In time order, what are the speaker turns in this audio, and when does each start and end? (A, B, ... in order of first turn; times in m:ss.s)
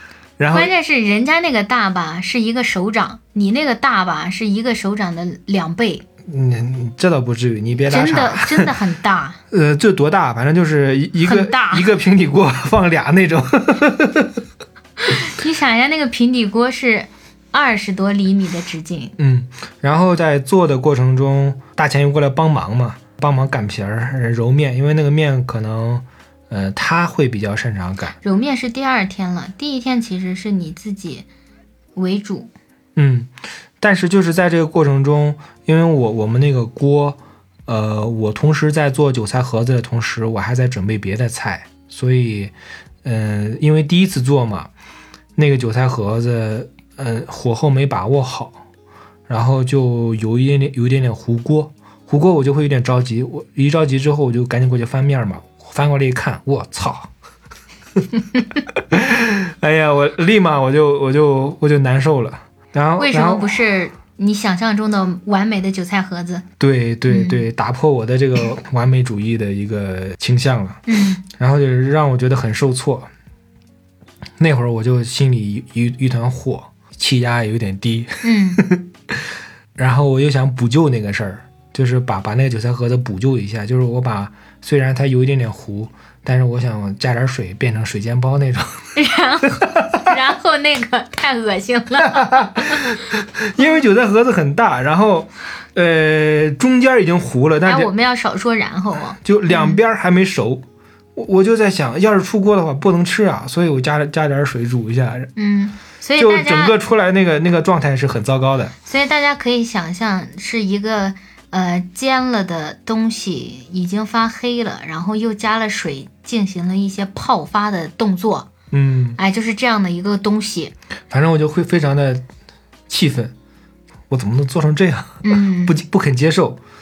0:00.4-0:00.7 A
0:00.5-0:06.0 B
0:06.3-0:08.8 A
0:07.9-0:09.4 B
0:09.5-0:14.4 A
0:11.2-0:11.8 B
0:15.0-0:19.1 B
0:19.2-0:28.2 A
0:28.2-0:31.3 B
0:32.0-0:32.5 B
0:33.0-0:44.7 A
0:45.4-0:48.6 A
0:49.3-0:57.1 A
0:58.7-1:03.6 A
1:03.0-1:06.4 B
1:06.6-1:13.1 A
1:07.1-1:07.4 B
1:10.9-1:11.2 B
1:14.4-1:18.8 A
1:18.2-1:18.6 B
1:19.8-1:29.0 A
1:29.0-1:33.0 B
1:29.6-1:30.1 A
1:32.0-1:37.9 A
1:37.6-1:39.8 B
1:39.2-1:40.6 A
1:41.2-1:45.3 A
1:45.4-1:46.8 B
1:46.2-1:48.7 A
1:48.8-1:58.5 B
1:58.7-1:59.2 A
1:59.2-2:00.7 B
2:01.1-2:02.2 A
2:02.9-2:03.3 A
2:04.1-2:06.6 A
2:05.2-2:05.7 B